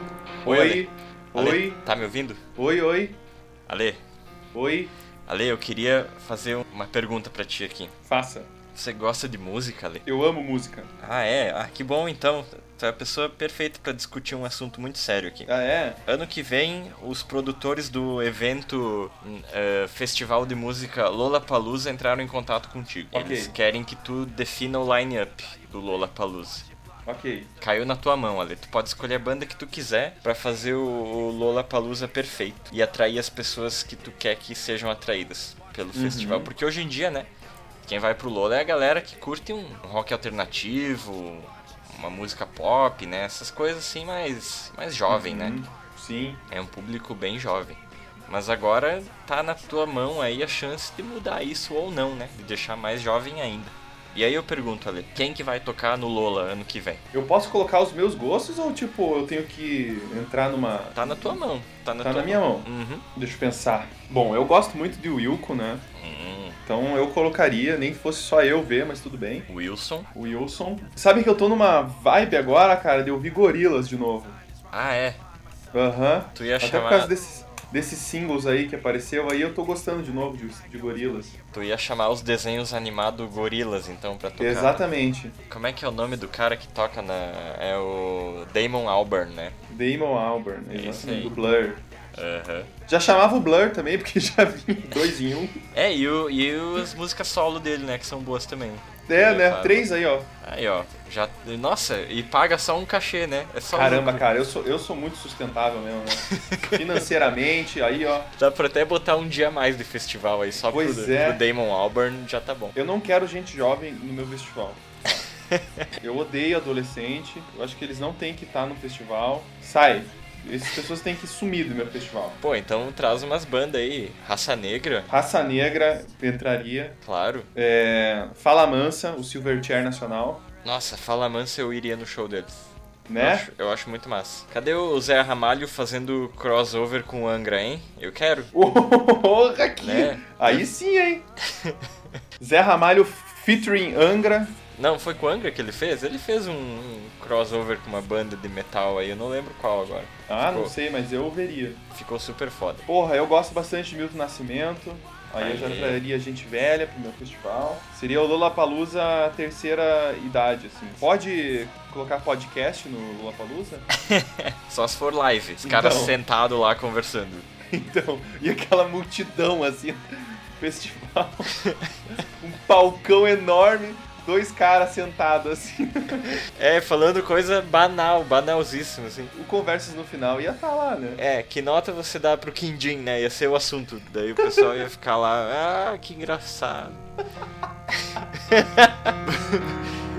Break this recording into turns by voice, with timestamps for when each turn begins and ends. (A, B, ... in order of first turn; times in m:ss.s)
0:00.4-0:01.8 A
0:00.4-0:02.4 B
0:02.6-0:03.2 A
0:03.7-0:04.0 B
0:04.5-0:04.9 A
0:05.3-0:07.9 B
0:08.0-0:08.5 A
0:08.7-0:10.0 B
0:10.1-0:10.9 A
0:11.0-0:15.5 B
0:15.5-0:16.0 A
0:16.0-0:26.6 B
0:23.1-0:23.5 A
0:27.0-0:27.5 A
0:27.6-0:37.3 B
0:36.0-0:36.5 A
0:37.8-0:45.6 B
0:45.1-0:46.4 A
0:46.5-0:57.0 B
0:57.1-1:01.4 A
1:00.9-1:03.0 B
1:02.0-1:05.8 A
1:06.0-1:06.6 B
1:06.7-1:09.5 A
1:09.5-1:10.1 B
1:10.1-1:14.4 A
1:14.7-1:15.2 B
1:15.7-1:21.4 A
1:16.3-1:17.1 B
1:21.5-1:24.9 B
1:24.4-1:25.4 A
1:25.5-1:29.6 B
1:29.7-1:31.8 A
1:30.7-1:31.3 B
1:32.2-1:32.7 B
1:32.9-1:35.6 A
1:35.7-1:39.9 B
1:39.1-1:40.3 A
1:40.4-1:44.3 B
1:43.7-1:48.3 A
1:46.2-1:47.1 B
1:48.4-1:52.8 B
1:50.6-1:51.4 A
1:52.8-1:55.2 A
1:55.5-1:55.9 B
1:56.0-2:02.4 A
2:02.4-2:05.1 B
2:05.1-2:07.0 A
2:07.0-2:07.5 B
2:07.5-2:10.4 A
2:10.6-2:12.7 B
2:13.1-2:13.5 A
2:13.2-2:18.5 B
2:18.5-2:21.2 A
2:19.8-2:20.6 B
2:22.4-2:24.5 A
2:24.8-2:30.7 B
2:30.3-2:31.8 A
2:31.9-2:32.8 B
2:32.9-2:43.9 A
2:35.4-2:36.0 B
2:44.0-2:47.5 B
2:45.6-2:46.2 A
2:47.7-2:51.5 A
2:52.4-2:56.3 A
2:56.6-2:59.3 B
2:59.3-3:01.2 A
3:01.2-3:07.0 B
3:08.2-3:09.8 B